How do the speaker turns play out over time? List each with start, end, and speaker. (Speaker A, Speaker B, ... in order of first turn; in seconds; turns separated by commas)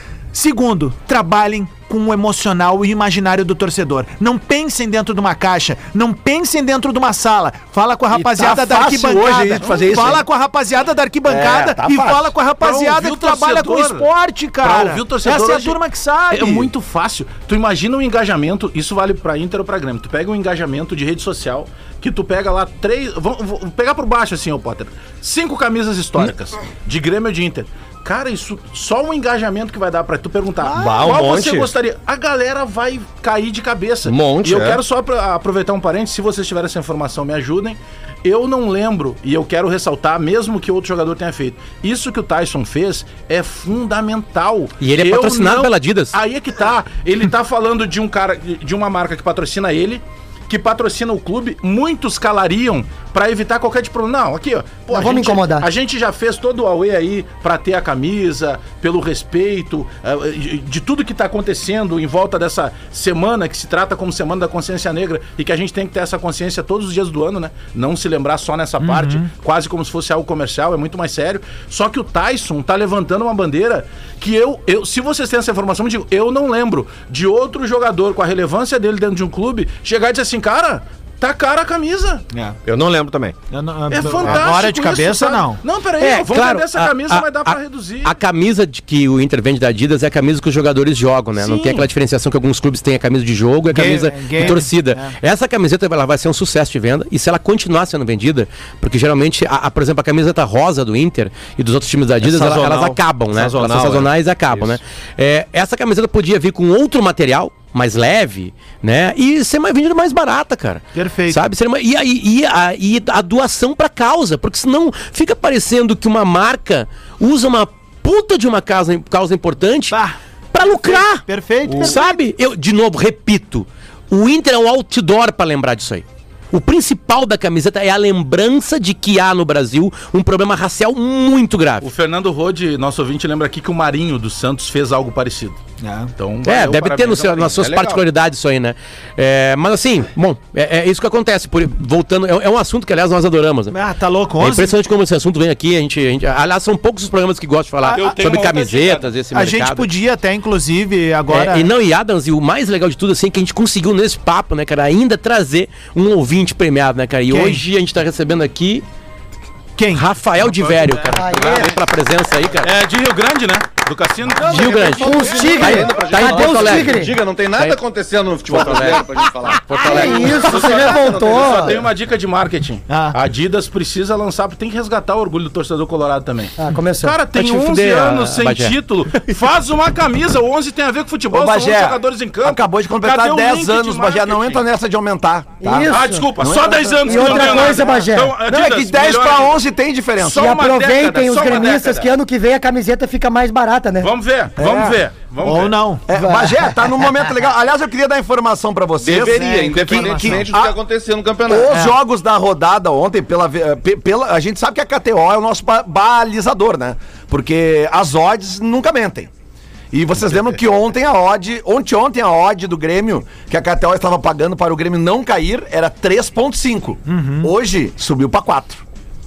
Speaker A: 0.3-16.7, Speaker B: 8.1-10.2, Speaker C: 9.6-10.1, Speaker B: 11.3-12.3, Speaker C: 12.6-14.1, Speaker C: 14.6-15.8, Speaker C: 16.3-82.3, Speaker D: 30.7-31.7, Speaker D: 34.1-34.8, Speaker E: 44.8-46.2, Speaker F: 54.9-55.7, Speaker A: 68.8-69.3, Speaker D: 82.7-83.3, Speaker A: 83.5-85.6, Speaker C: 83.9-88.2, Speaker E: 86.0-120.0, Speaker C: 91.4-91.9, Speaker A: 93.7-95.2, Speaker D: 102.2-104.8, Speaker A: 110.9-111.4, Speaker A: 119.9-122.2, Speaker E: 120.5-131.9, Speaker C: 131.8-135.6, Speaker A: 135.8-136.1, Speaker C: 136.2-138.0, Speaker E: 136.4-143.8, Speaker A: 143.7-144.7, Speaker E: 144.4-149.9, Speaker A: 147.9-148.2, Speaker C: 147.9-149.1, Speaker A: 149.3-151.7, Speaker E: 151.3-158.8, Speaker A: 157.3-157.6, Speaker A: 159.8-160.1, Speaker E: 159.9-162.7, Speaker C: 160.4-161.7, Speaker F: 161.1-161.7, Speaker C: 162.6-165.6, Speaker G: 164.4-171.8, Speaker E: 164.4-167.8, Speaker F: 164.9-167.2, Speaker E: 168.5-170.3, Speaker F: 169.8-171.8, Speaker C: 170.3-184.6, Speaker A: 172.9-173.2, Speaker F: 176.6-177.2, Speaker E: 177.3-178.8, Speaker B: 181.3-190.5, Speaker F: 185.6-186.3, Speaker C: 185.8-189.6, Speaker F: 187.0-188.4, Speaker C: 190.2-192.1, Speaker F: 190.3-194.1, Speaker C: 194.0-195.8, Speaker B: 194.6-195.0, Speaker A: 195.4-196.1, Speaker B: 196.1-200.8, Speaker F: 196.1-197.3, Speaker G: 199.0-201.8, Speaker A: 199.3-200.5, Speaker B: 201.5-209.3, Speaker B: 209.9-218.8, Speaker A: 217.1-217.5